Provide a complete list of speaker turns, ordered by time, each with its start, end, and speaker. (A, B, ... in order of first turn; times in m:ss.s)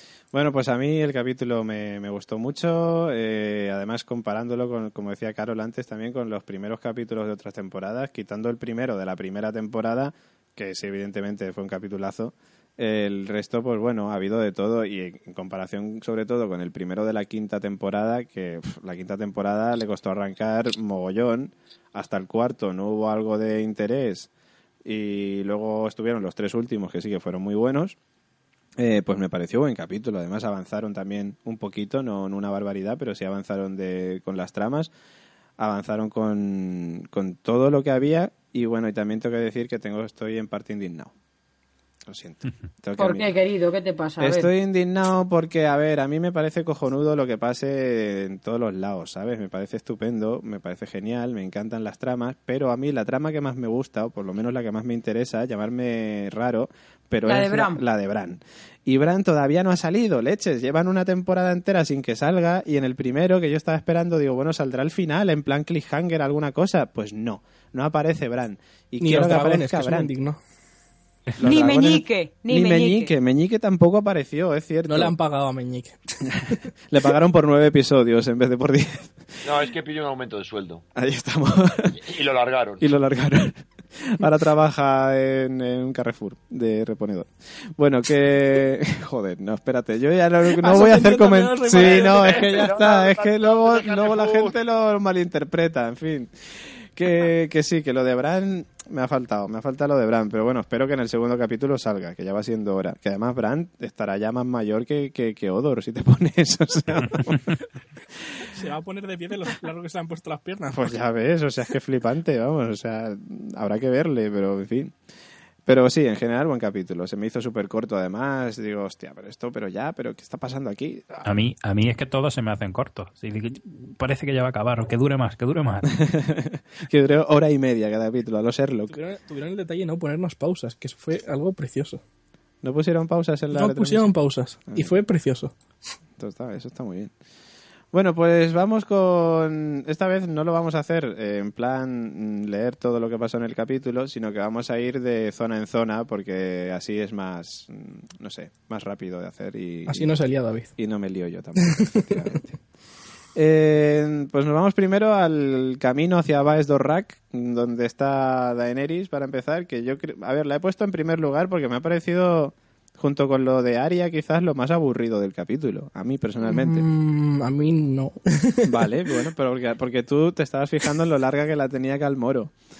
0:00.3-0:24.3 A
0:24.8-0:28.0 A
0:28.8-0:34.9 A
0:35.6-0:41.1 A
0:42.0-0:43.3 A
0:43.0-0:44.5 B
0:44.2-1:10.1 A
0:57.2-0:57.8 B
1:09.0-1:10.4 C
1:11.4-1:15.1 A
1:11.4-1:13.1 B
1:14.9-1:16.5 C
1:16.2-1:19.4 A
1:19.4-1:20.8 D
1:20.9-1:22.0 A
1:21.9-1:22.9 D
1:22.8-1:47.5 A
1:30.5-1:32.7 C
1:31.7-1:34.5 D
1:48.4-1:50.9 C
1:50.7-1:54.9 A
1:55.6-2:01.3 A
2:01.2-2:06.0 E
2:05.9-2:09.0 A
2:08.9-2:12.0 C
2:12.6-2:14.1 A
2:13.5-2:15.5 C
2:16.2-2:17.1 A
2:17.9-2:30.1 A
2:29.9-2:30.7 C
2:30.8-2:32.6 A
2:31.6-2:32.3 C
2:33.3-2:46.8 A
2:46.4-2:48.8 C
2:48.6-2:52.5 A